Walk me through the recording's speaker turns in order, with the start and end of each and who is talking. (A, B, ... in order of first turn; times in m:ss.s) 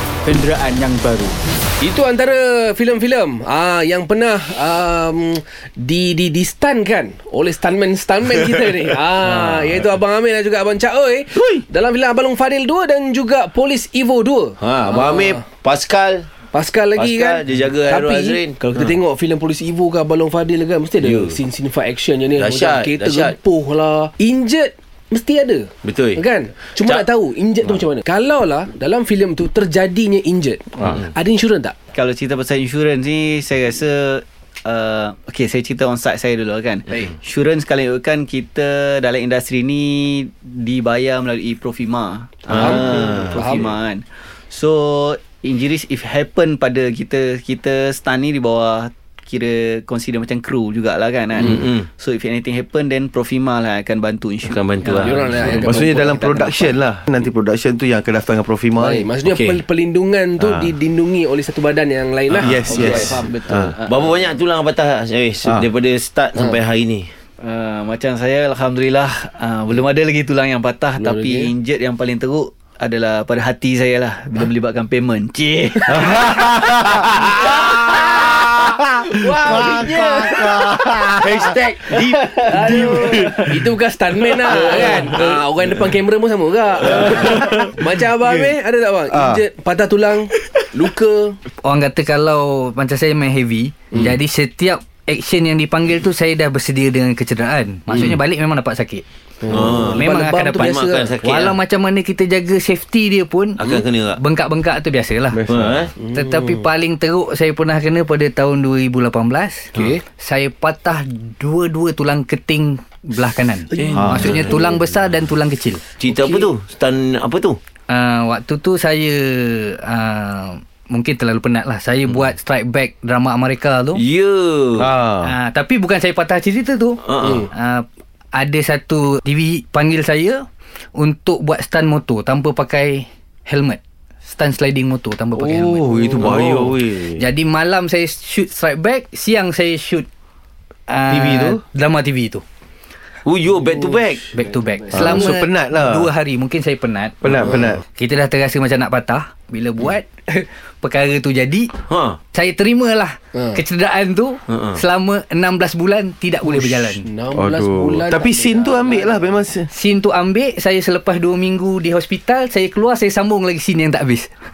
0:00.2-0:01.3 A
0:01.8-0:15.4 B
0:14.6-0:16.3 C
0:16.5-0:31.7 B
0:16.9-0:18.6 C
0:21.0-0:21.4 C
0:22.4-0:23.4 C
0:25.8-0:26.2 C
0:26.8-0:27.1 C
0:31.9-0:56.7 A
0:42.5-0:43.4 C
0:42.5-0:43.7 B
0:51.4-0:51.8 C
0:54.4-0:55.1 C
0:54.9-0:55.9 B
0:55.5-0:59.1 D
0:58.8-1:03.8 B
1:02.4-1:03.7 D
1:02.4-1:03.2 C
1:02.6-1:03.2 A
1:03.8-1:07.1 C
1:07.4-1:16.4 A
1:11.0-1:11.5 B
1:15.9-1:23.5 D
1:19.1-1:31.4 B
1:24.5-1:25.2 D
1:27.0-1:28.5 D
1:29.1-1:29.4 D
1:31.6-1:39.0 E
1:37.9-1:38.2 C
1:39.4-1:41.1 B
1:39.5-1:39.9 D
1:39.5-1:40.0 C
1:39.9-1:45.4 E
1:40.6-1:41.6 C
1:43.6-1:44.2 C
1:45.3-1:45.8 D
1:45.5-1:45.9 C
1:46.0-1:46.5 B
1:46.1-1:55.8 E
1:49.7-1:50.0 B
1:53.8-1:54.1 B
1:53.9-1:54.6 D
1:56.0-1:57.6 C
1:57.9-2:04.0 E
2:04.0-2:04.9 C
2:04.8-2:05.3 D
2:05.2-2:07.0 E
2:07.0-2:07.5 C
2:07.5-2:10.4 E
2:11.0-2:16.4 E
2:15.4-2:17.1 D
2:16.2-2:17.1 C
2:17.1-2:20.0 E
2:20.9-2:22.4 E
2:21.1-2:21.6 D
2:23.2-2:24.3 C
2:24.3-2:31.7 E
2:24.9-2:26.1 D
2:27.2-2:27.8 D
2:31.9-2:32.2 C
2:32.3-2:37.0 E
2:33.3-2:33.6 B
2:34.5-2:34.8 C
2:36.4-2:39.2 B
2:37.3-2:39.7 D
2:39.7-2:44.3 E